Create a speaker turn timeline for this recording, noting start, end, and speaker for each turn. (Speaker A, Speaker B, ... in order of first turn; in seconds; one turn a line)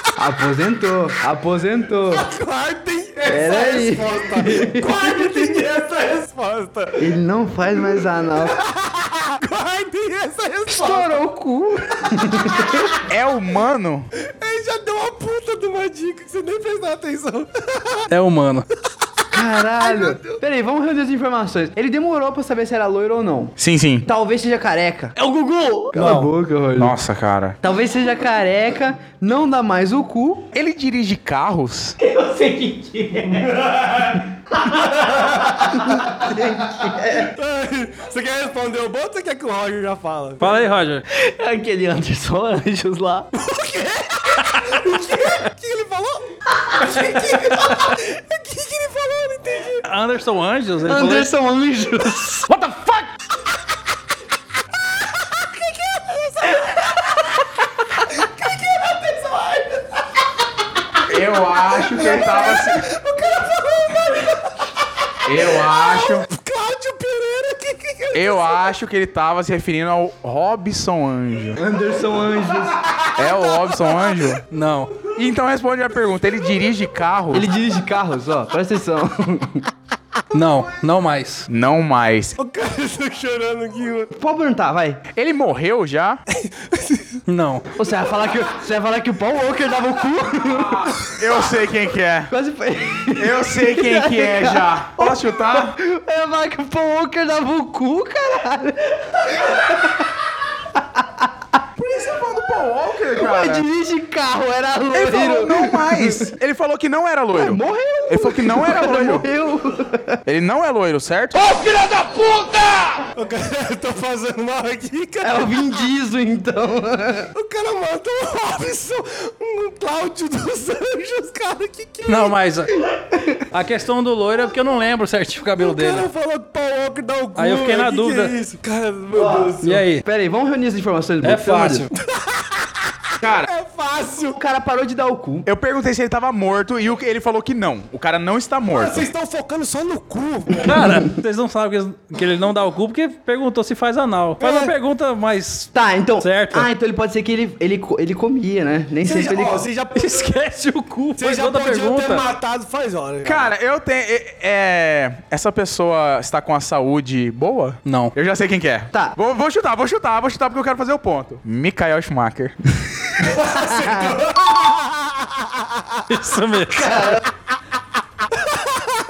Speaker A: 0.2-2.2
Speaker B: 2.1-7.1
Speaker A: 3.3-5.6
Speaker A: 7.0-8.6
Speaker B: 7.9-11.2
Speaker A: 10.7-12.9
Speaker C: 13.1-14.1
Speaker B: 14.4-18.1
Speaker D: 18.1-18.6
Speaker A: 19.3-25.1
Speaker B: 19.8-20.4
Speaker C: 23.6-24.1
Speaker E: 25.2-26.2
Speaker A: 25.9-26.9
Speaker D: 26.0-26.3
Speaker C: 26.8-27.6
Speaker A: 27.6-30.5
Speaker C: 30.5-32.0
Speaker E: 32.0-33.6
Speaker E: 34.6-35.4
Speaker A: 35.7-37.3
Speaker B: 37.2-40.6
Speaker D: 40.4-41.0
Speaker E: 41.1-43.3
Speaker B: 43.3-49.9
Speaker D: 49.8-51.3
Speaker A: 50.8-52.5
Speaker D: 52.5-53.1
Speaker B: 55.4-56.8
Speaker A: 56.6-57.3
Speaker B: 58.2-59.4
Speaker A: 59.1-59.8
Speaker C: 61.1-62.9
Speaker B: 62.0-64.3
Speaker C: 65.2-66.3
Speaker B: 65.3-68.7
Speaker C: 68.1-71.6
Speaker A: 71.5-72.8
Speaker C: 73.2-74.4
Speaker B: 73.4-74.1
Speaker D: 74.5-75.0
Speaker C: 75.0-77.5
Speaker A: 77.3-79.7
Speaker D: 80.3-81.5
Speaker C: 81.5-82.3
Speaker B: 82.4-84.1
Speaker A: 84.1-85.0
Speaker C: 85.1-86.2
Speaker B: 86.3-87.2
Speaker D: 87.3-87.7
Speaker A: 87.7-90.9
Speaker C: 90.5-92.3
Speaker A: 92.3-100.1
Speaker C: 93.2-95.8
Speaker A: 100.7-101.3
Speaker C: 101.8-103.7
Speaker A: 103.1-106.3
Speaker C: 104.9-109.2
Speaker A: 107.3-110.2
Speaker C: 110.2-113.0
Speaker A: 111.4-112.0
Speaker B: 113.1-115.6
Speaker A: 115.2-117.3
Speaker B: 117.3-122.4
Speaker D: 122.1-122.8
Speaker A: 123.0-123.4
Speaker D: 123.5-126.1
Speaker B: 125.6-129.8
Speaker D: 127.4-128.3
Speaker A: 129.1-129.4
Speaker D: 129.6-130.0
Speaker A: 130.0-131.8
Speaker D: 131.2-131.9
Speaker B: 131.9-134.4
Speaker C: 133.2-133.5
Speaker A: 134.3-135.5
Speaker C: 135.4-139.1
Speaker B: 138.7-141.0
Speaker D: 140.6-146.7
Speaker B: 144.4-144.7
Speaker A: 145.7-149.6
Speaker B: 149.0-150.3
Speaker D: 149.9-152.2
Speaker B: 151.2-153.5
Speaker C: 153.2-163.1
Speaker D: 157.8-158.1
Speaker B: 163.2-166.0
Speaker A: 163.4-164.2
Speaker D: 166.1-167.0
Speaker A: 166.8-167.2
Speaker B: 168.6-168.8